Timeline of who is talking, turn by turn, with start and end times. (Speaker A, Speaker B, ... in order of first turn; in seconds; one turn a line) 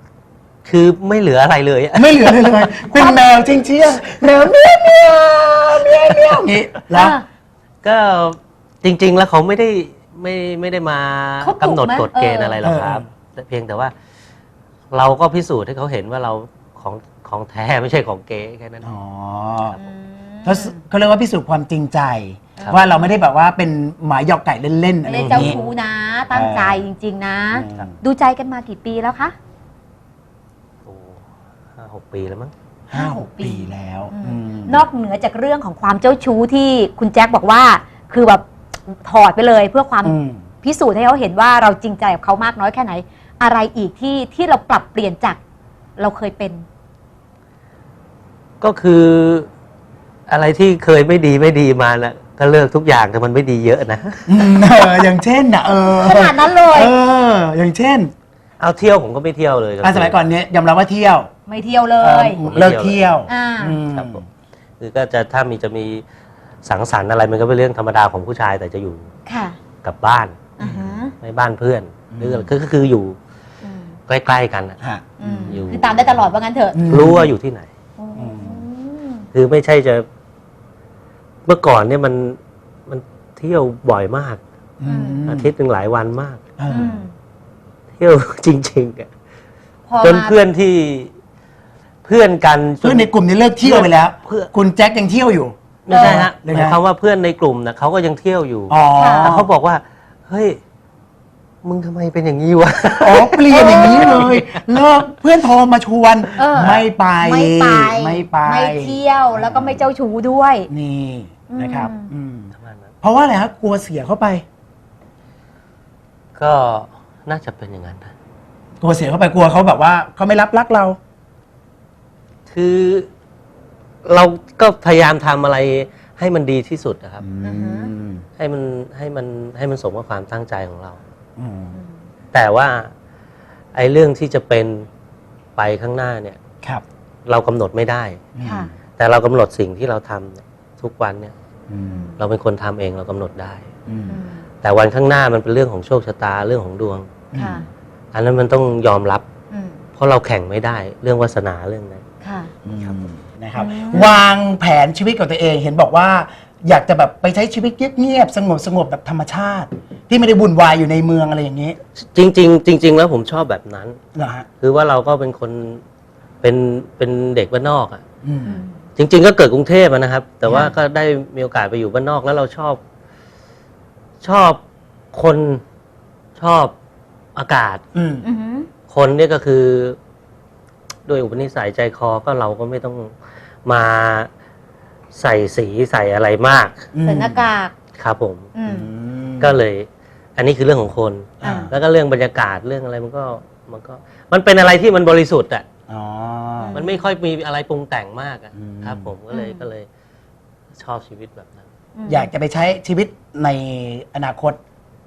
Speaker A: 0.6-2.8
Speaker B: 1.9-7.2
Speaker C: 2.9-3.2
Speaker A: 6.0-6.4
Speaker C: 6.9-7.2
Speaker A: 7.8-13.9
Speaker C: 11.4-12.6
Speaker B: 12.6-13.0
Speaker A: 14.9-18.9
Speaker B: 18.8-19.8
Speaker C: 19.7-20.8
Speaker B: 20.4-25.6
Speaker C: 22.6-23.0
Speaker C: 25.0-29.3
Speaker A: 25.1-25.6
Speaker B: 26.3-26.8
Speaker B: 27.5-27.9
Speaker A: 30.8-31.2
Speaker A: 31.8-32.5
Speaker B: 32.9-34.9
Speaker C: 32.9-38.5
Speaker C: 39.0-45.4
Speaker B: 40.0-40.5
Speaker C: 46.0-46.6
Speaker A: 48.6-49.5
Speaker A: 50.3-54.5
Speaker B: 54.3-58.1
Speaker C: 55.9-56.9
Speaker A: 58.6-60.2
Speaker B: 59.8-61.3
Speaker C: 61.5-62.4
Speaker B: 62.0-64.2
Speaker A: 62.5-63.0
Speaker C: 63.3-63.8
Speaker A: 63.9-64.2
Speaker A: 64.8-66.0
Speaker A: 66.6-69.1
Speaker C: 69.2-69.6
Speaker A: 69.8-70.4
Speaker C: 70.6-71.1
Speaker B: 70.6-71.0
Speaker A: 71.2-73.2
Speaker B: 72.1-72.5
Speaker C: 73.6-73.9
Speaker A: 74.1-74.8
Speaker B: 74.8-75.6
Speaker C: 75.2-76.9
Speaker A: 75.5-76.2
Speaker B: 76.7-77.3
Speaker A: 76.8-77.7
Speaker C: 78.0-79.2
Speaker B: 78.2-78.6
Speaker A: 79.3-80.0
Speaker A: 81.4-84.4
Speaker B: 84.8-85.5
Speaker C: 84.8-85.2
Speaker A: 85.2-86.4
Speaker B: 86.6-87.0
Speaker C: 86.7-87.1
Speaker A: 88.0-89.1
Speaker C: 89.9-90.4
Speaker A: 90.0-91.1
Speaker A: 92.0-94.5
Speaker B: 92.8-96.8
Speaker A: 95.8-100.6
Speaker C: 95.9-96.2
Speaker B: 98.7-99.5
Speaker C: 98.9-99.3
Speaker A: 101.6-104.6
Speaker B: 103.0-109.8
Speaker C: 103.5-104.3
Speaker C: 106.4-110.7
Speaker B: 110.7-114.4
Speaker C: 111.5-112.1
Speaker A: 112.5-112.9
Speaker A: 116.3-118.1
Speaker B: 118.8-121.0
Speaker A: 122.5-123.1
Speaker A: 124.0-127.2
Speaker B: 127.2-128.2
Speaker C: 127.4-127.9
Speaker A: 128.4-131.0
Speaker B: 131.4-131.8
Speaker A: 132.3-132.9
Speaker A: 133.7-134.9
Speaker A: 135.6-136.4
Speaker A: 137.2-138.2
Speaker B: 138.3-138.7
Speaker C: 138.4-138.7
Speaker A: 138.9-141.3
Speaker B: 141.7-142.1
Speaker C: 141.8-142.2
Speaker A: 142.2-143.7
Speaker B: 143.9-144.2
Speaker C: 144.1-144.4
Speaker A: 144.6-147.1
Speaker B: 147.3-147.7
Speaker C: 147.3-147.7
Speaker A: 148.1-149.2
Speaker C: 149.5-149.8
Speaker A: 150.0-152.0
Speaker C: 152.2-152.5
Speaker B: 152.6-161.8
Speaker C: 153.5-154.2
Speaker A: 162.0-164.0
Speaker B: 164.1-164.4
Speaker A: 164.6-165.8
Speaker A: 166.4-168.0
Speaker B: 168.2-168.6
Speaker C: 168.4-168.7
Speaker A: 169.0-172.8
Speaker A: 174.2-174.6
Speaker A: 175.1-175.6
Speaker A: 176.4-176.7
Speaker A: 177.3-177.8
Speaker B: 177.9-178.2
Speaker C: 178.2-178.7
Speaker A: 178.9-180.0
Speaker A: 181.1-184.3
Speaker A: 185.1-186.8
Speaker B: 186.9-187.4
Speaker C: 187.0-187.7
Speaker A: 188.0-188.5
Speaker C: 188.5-188.9
Speaker B: 188.6-189.6
Speaker A: 189.4-195.7
Speaker B: 191.4-191.7
Speaker C: 191.4-191.7
Speaker B: 195.9-196.8
Speaker C: 196.6-197.0
Speaker A: 196.7-199.9
Speaker B: 198.5-199.1
Speaker C: 199.3-199.7
Speaker A: 200.8-201.6
Speaker C: 201.9-202.3
Speaker B: 202.1-204.6